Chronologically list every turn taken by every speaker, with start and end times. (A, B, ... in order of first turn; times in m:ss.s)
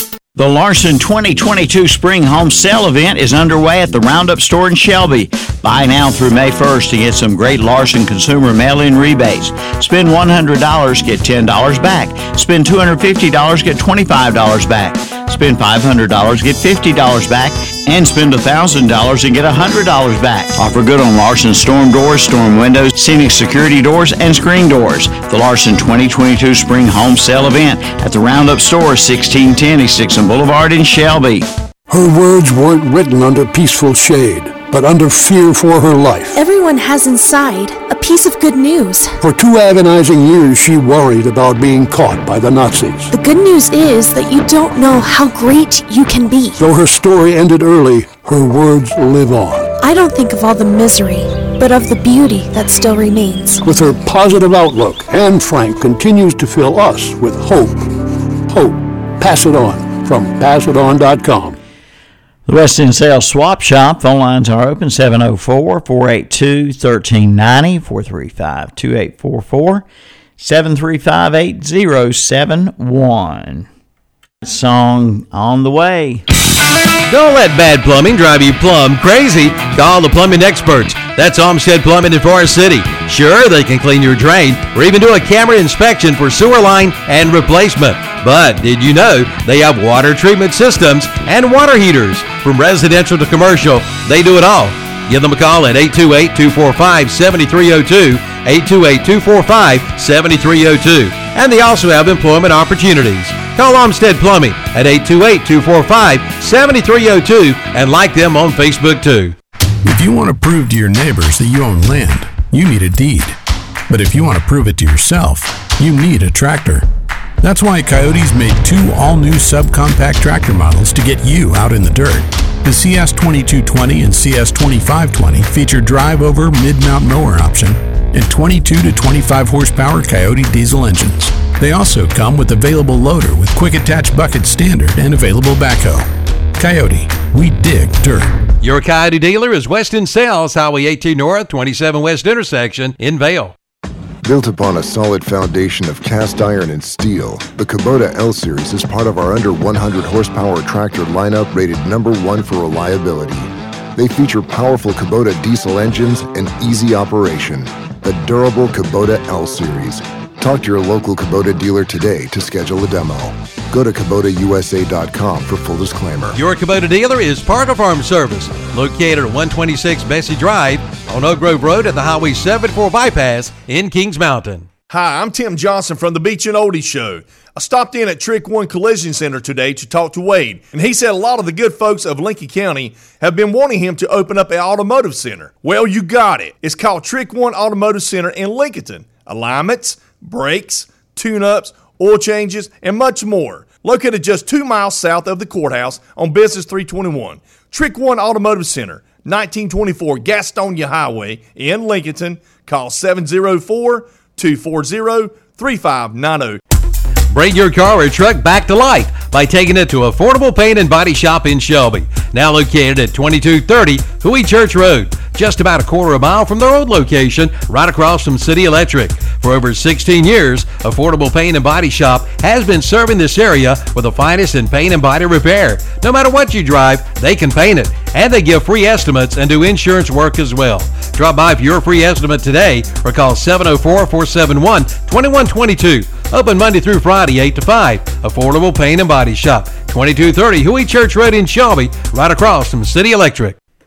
0:00.4-0:31.5 A
0:31.9-0:36.4 B
0:36.3-0:39.2 C
0:39.2-0:43.1 B
0:43.1-0:46.6 C
0:46.6-0:49.7 B
0:49.8-0:53.6 C
0:53.7-0:57.9 B
0:58.5-1:01.6 B
1:02.5-1:09.8 A
1:10.4-1:13.7 A
1:14.4-1:16.3 A
1:17.1-1:49.4 D
1:49.8-1:53.4 E
1:53.9-1:56.9 E
1:57.4-2:18.3 E
2:18.6-2:23.6 D
2:24.2-2:46.4 F
2:46.3-2:54.7 D
2:54.9-3:26.6 G
3:27.3-4:03.6 D